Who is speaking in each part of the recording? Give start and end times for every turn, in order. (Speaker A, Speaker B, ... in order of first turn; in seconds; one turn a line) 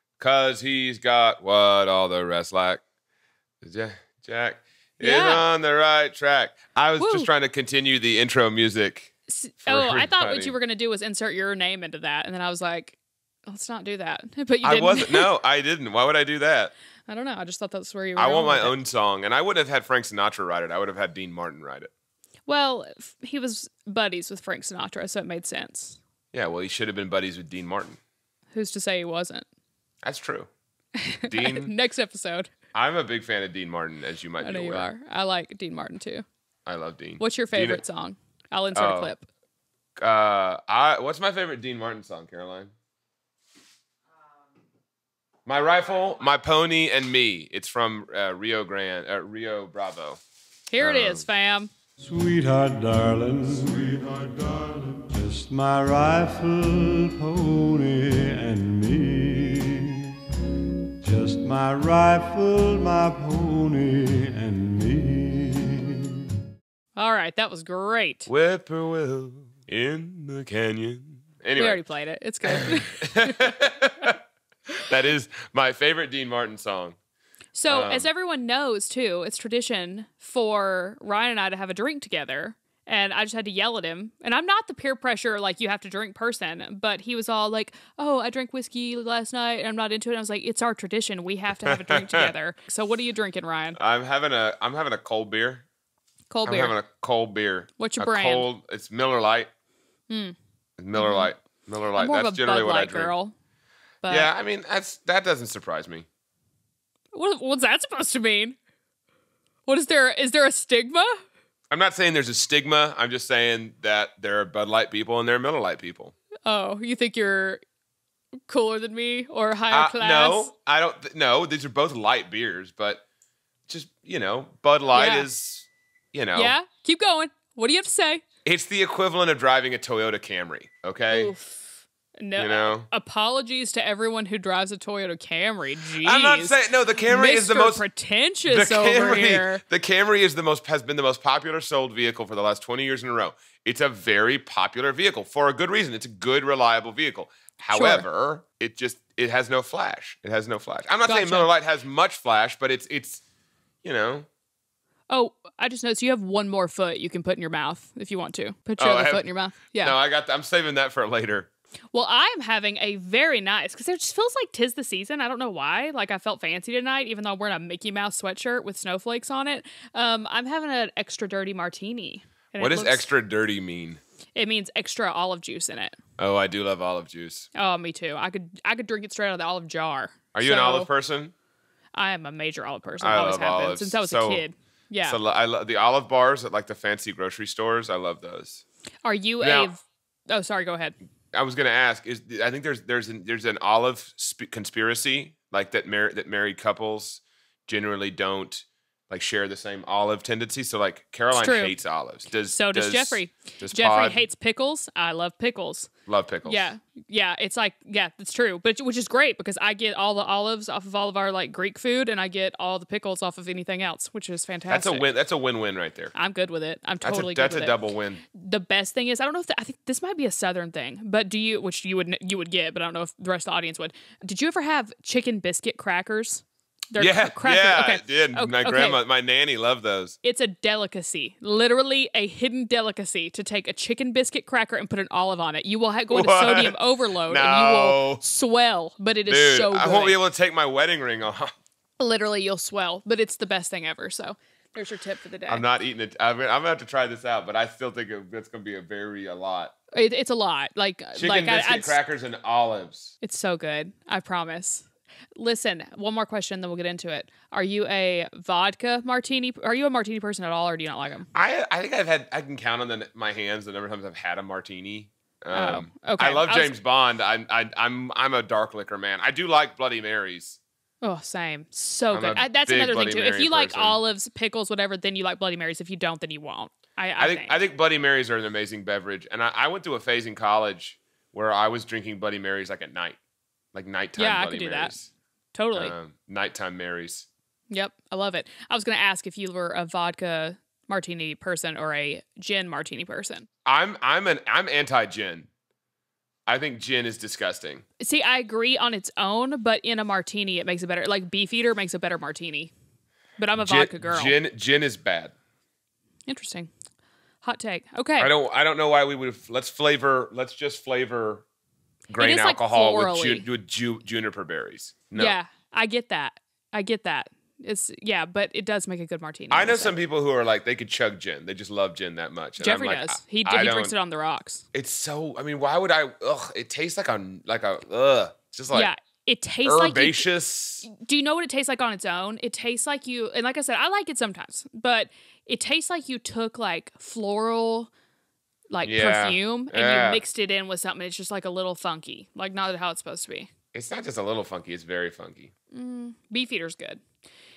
Speaker A: 0.2-2.8
Speaker A: 3.6-9.1
Speaker B: 5.0-5.4
Speaker B: 7.0-7.3
Speaker B: 9.3-15.3
Speaker A: 9.6-10.5
Speaker A: 14.6-16.7
Speaker B: 17.1-18.8
Speaker A: 18.1-21.9
Speaker B: 22.5-26.0
Speaker A: 26.3-28.0
Speaker B: 28.5-29.4
Speaker A: 30.0-30.5
Speaker B: 31.0-32.5
Speaker A: 31.3-31.7
Speaker A: 32.7-34.9
Speaker B: 34.4-36.2
Speaker A: 36.7-37.8
Speaker B: 37.2-39.3
Speaker A: 38.7-39.1
Speaker A: 40.0-42.7
Speaker A: 45.5-50.2
Speaker B: 50.7-51.7
Speaker A: 50.8-51.2
Speaker C: 52.0-60.0
Speaker C: 61.0-66.1
Speaker B: 67.0-68.3
Speaker A: 68.3-71.8
Speaker B: 71.6-73.6
Speaker A: 72.5-74.2
Speaker A: 74.8-77.0
Speaker B: 77.5-93.8
Speaker A: 77.7-78.1
Speaker A: 91.7-92.3
Speaker A: 93.8-95.7
Speaker B: 96.3-96.8
Speaker A: 96.5-99.5
Speaker B: 97.8-98.5
Speaker B: 100.1-100.4
Speaker A: 100.8-103.1
Speaker B: 101.0-101.3
Speaker B: 102.0-103.3
Speaker B: 104.0-104.3
Speaker A: 104.1-106.1
Speaker B: 107.1-108.6
Speaker B: 109.7-111.2
Speaker A: 111.7-116.1
Speaker B: 116.5-117.6
Speaker B: 118.5-120.5
Speaker A: 119.7-123.0
Speaker A: 123.7-126.5
Speaker B: 124.9-125.3
Speaker B: 126.3-128.2
Speaker A: 128.4-131.3
Speaker B: 131.1-131.6
Speaker B: 132.2-139.6
Speaker A: 132.4-132.9
Speaker A: 136.0-137.8
Speaker A: 138.5-153.2
Speaker B: 147.7-148.0
Speaker B: 151.1-151.5
Speaker A: 153.8-154.3
Speaker B: 155.1-159.9
Speaker A: 158.8-159.2
Speaker A: 159.8-161.5
Speaker B: 161.9-173.0
Speaker A: 172.6-174.0
Speaker B: 174.3-175.9
Speaker A: 176.2-177.5
Speaker B: 177.5-180.9
Speaker A: 180.3-181.3
Speaker B: 181.9-185.2
Speaker A: 183.0-184.4
Speaker A: 185.0-188.6
Speaker B: 189.0-190.9
Speaker A: 189.4-189.7
Speaker A: 191.3-204.2
Speaker B: 201.3-201.7
Speaker B: 202.5-205.9
Speaker A: 206.1-206.7
Speaker B: 206.4-215.1
Speaker A: 214.7-216.1
Speaker B: 216.1-217.8
Speaker A: 217.0-218.2
Speaker B: 218.3-229.0
Speaker A: 226.9-230.2
Speaker B: 230.2-240.2
Speaker A: 236.1-238.2
Speaker A: 239.3-241.5
Speaker B: 242.0-245.6
Speaker A: 245.5-249.7
Speaker B: 249.9-252.0
Speaker A: 251.2-253.2
Speaker B: 253.2-261.3
Speaker A: 261.3-270.6
Speaker B: 265.5-266.7
Speaker B: 271.0-277.6
Speaker A: 272.1-274.0
Speaker A: 277.2-283.2
Speaker A: 283.7-285.1
Speaker B: 284.2-284.9
Speaker B: 285.5-285.9
Speaker A: 285.7-287.3
Speaker B: 287.7-293.5
Speaker A: 293.6-295.5
Speaker A: 296.5-297.8
Speaker B: 298.0-302.7
Speaker B: 303.4-304.4
Speaker A: 303.6-305.3
Speaker B: 306.3-306.7
Speaker B: 307.4-308.3
Speaker A: 308.2-311.4
Speaker A: 312.1-315.4
Speaker B: 312.2-313.5
Speaker B: 315.2-319.9
Speaker A: 319.5-323.9
Speaker B: 322.6-324.6
Speaker A: 324.7-328.9
Speaker B: 328.7-330.3
Speaker A: 329.6-330.9
Speaker B: 330.8-337.9
Speaker B: 338.7-343.5
Speaker A: 338.8-340.2
Speaker A: 343.7-345.5
Speaker B: 345.7-347.0